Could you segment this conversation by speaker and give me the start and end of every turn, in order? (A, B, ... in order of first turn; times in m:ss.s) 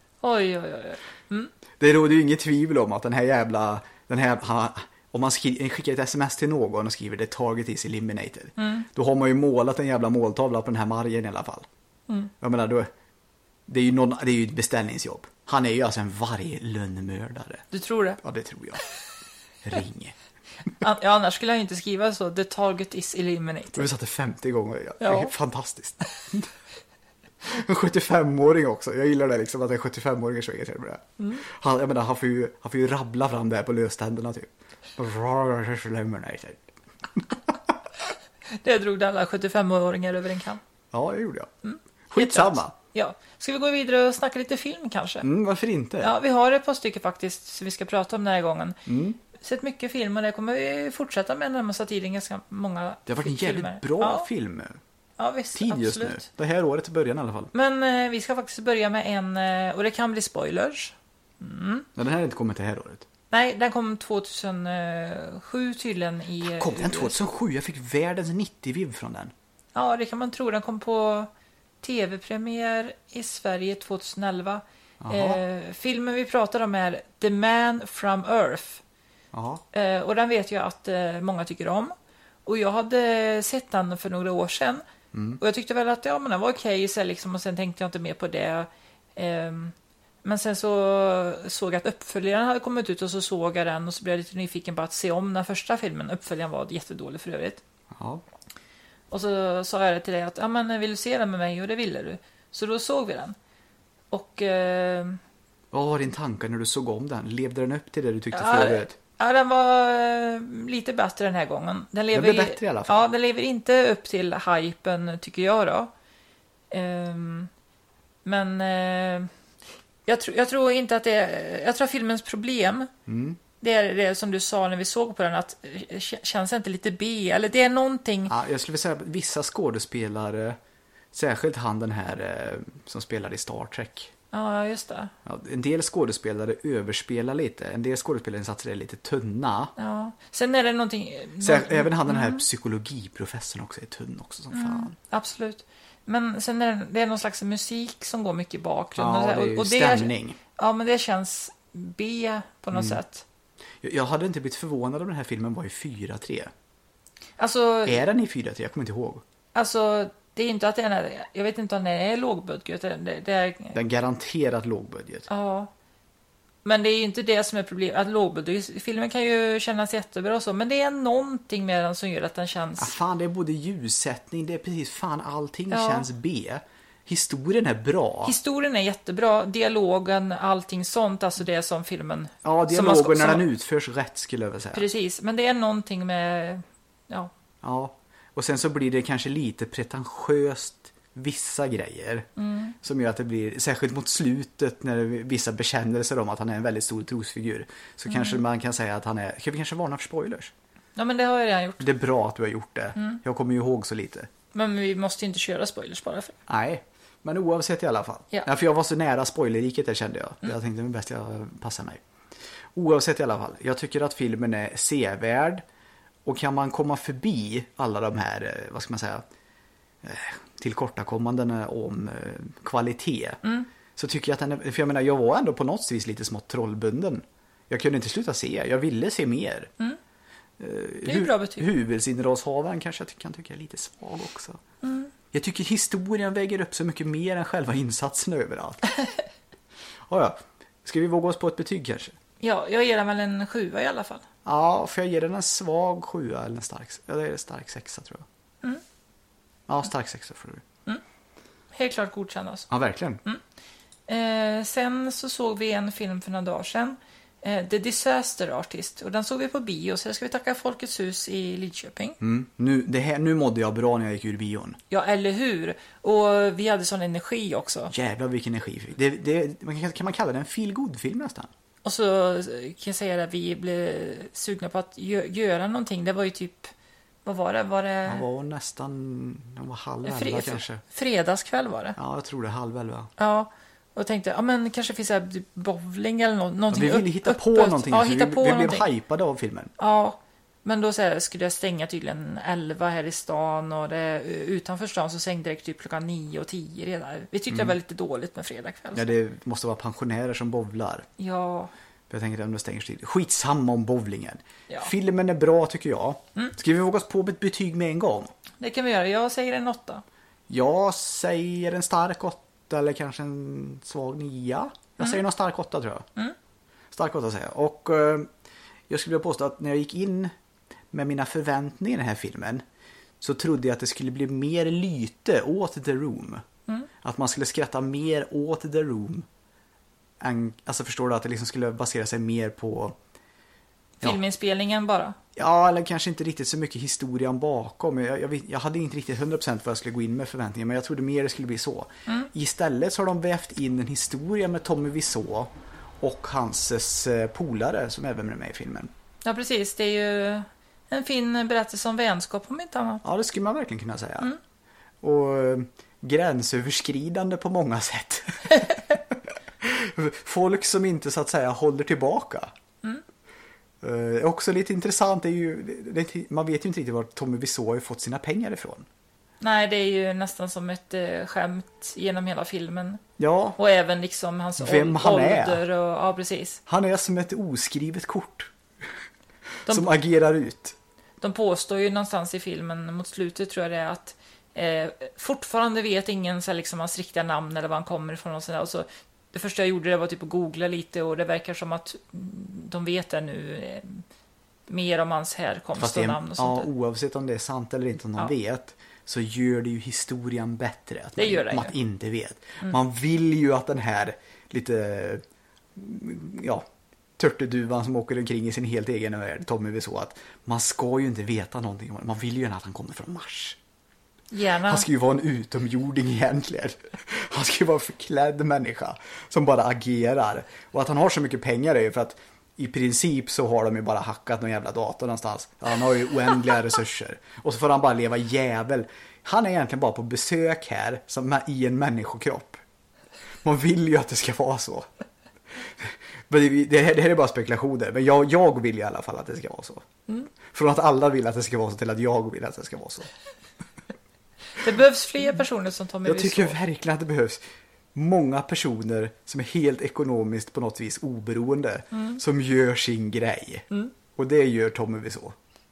0:00.2-0:01.5 A
0:01.8-0:11.7 B
0:08.6-0:08.9 A
0:12.4-0:12.9 B
0:13.7-0:17.7 B
0:17.7-0:18.2 A
0:18.2-0:18.8 B
0:19.6-0:20.2 B
0:20.8-0:23.9 A
0:23.8-0:26.5 B
0:25.0-0:25.3 A
0:27.4-0:37.5 B
0:31.2-0:31.4 A
0:38.5-0:40.6 A
0:40.9-0:41.5 B
0:41.6-0:45.3 A
0:42.1-0:42.7 B
0:45.2-0:46.2 B
0:46.0-0:48.8 A
0:48.9-0:49.2 B
0:49.3-0:54.3 A
0:53.1-0:54.8 B
0:55.2-0:56.2 A
0:55.6-0:57.5 B
0:57.5-1:01.9 A
1:02.0-1:03.1 B
1:03.3-1:07.2 A
1:06.4-1:09.3 B
1:09.8-1:11.3 A
1:11.8-1:18.8 A
1:15.0-1:15.4 B
1:19.3-1:19.6 B
1:19.7-1:21.9 A
1:22.5-1:24.8 A
1:25.1-1:25.4 B
1:25.4-1:37.6 A
1:37.9-1:38.2 B
1:39.1-1:43.4 A
1:44.1-1:45.2 A
1:45.7-1:49.0 B
1:48.3-1:55.9 A
1:52.1-1:53.1 B
1:56.7-1:57.5 A
1:58.2-1:59.3 A
2:00.1-2:02.9 A
2:03.1-2:03.4 B
2:03.6-2:08.3 A
2:08.3-2:10.6 B
2:11.1-2:14.1 B
2:14.3-2:15.1 A
2:15.2-2:19.7 B
2:19.8-2:22.4 A
2:21.4-2:25.0 B
2:24.5-2:33.2 A
2:29.0-2:30.4 B
2:32.7-2:33.0 B
2:33.8-2:36.5 B
2:37.4-2:38.0 A
2:37.9-2:39.2 B
2:39.6-2:43.8 A
2:43.7-2:45.3 B
2:45.3-2:45.7 A
2:46.6-2:52.9 A
2:52.8-2:58.4 B
2:55.7-2:56.1 A
2:58.2-3:03.4 A
3:02.4-3:04.9 B
3:04.7-3:07.3 A
3:07.6-3:12.3 B
3:12.4-3:12.7 A
3:12.8-3:20.5 B
3:18.1-3:18.4 A
3:21.0-3:21.9 A
3:21.8-3:24.3 B
3:24.5-3:26.4 A
3:26.5-3:32.0 B
3:32.8-3:35.6 B
3:36.2-3:39.2 B
3:40.0-3:43.4 B
3:44.0-3:49.7 B
3:50.6-3:54.6 B
3:51.0-3:51.7 A
3:54.8-3:55.1 A
3:55.3-3:58.8 B
4:00.1-4:02.2 B
4:02.4-4:04.3 A
4:04.4-4:08.2 B
4:09.7-4:10.6 B
4:11.7-4:12.7 A
4:12.7-4:13.2 B
4:14.1-4:22.2 A
4:22.2-4:24.8 B
4:24.9-4:27.9 A
4:27.9-4:31.5 B
4:31.8-4:36.7 A
4:37.2-4:38.2 A
4:38.1-4:40.8 B
4:40.0-4:42.0 A
4:42.0-4:43.1 B
4:43.2-4:48.9 A
4:46.7-4:49.7 B
4:49.8-4:59.1 A
4:58.9-5:01.1 B
5:01.2-5:01.7 A
5:02.1-5:08.3 B
5:08.6-5:10.0 A
5:10.5-5:16.1 B
5:16.9-5:18.3 B
5:18.9-5:20.3 B
5:20.9-5:22.6 B
5:23.2-5:26.4 B
5:27.0-5:29.3 B
5:30.2-5:33.0 B
5:34.0-5:35.2 A
5:35.4-5:48.9 B
5:49.2-5:53.0 A
5:53.0-5:54.3 B
5:55.0-6:02.5 B
6:03.8-6:08.9 B
6:09.4-6:13.0 A
6:13.2-6:13.6 B
6:13.6-6:16.6 A
6:14.6-6:15.6 B
6:16.7-6:18.5 B
6:19.7-6:20.8 B
6:21.2-6:34.0 A
6:34.7-6:36.7 A
6:35.8-6:45.2 B
6:41.2-6:41.7 A
6:45.8-6:46.6 B
6:47.2-6:53.6 B
6:54.3-6:54.9 A
6:54.7-7:12.6 B
7:13.4-7:14.9 B
7:15.6-7:19.8 B
7:20.5-7:23.1 B
7:24.6-7:26.6 A
7:26.0-7:27.4 B
7:28.0-7:35.4 B
7:31.9-7:32.2 A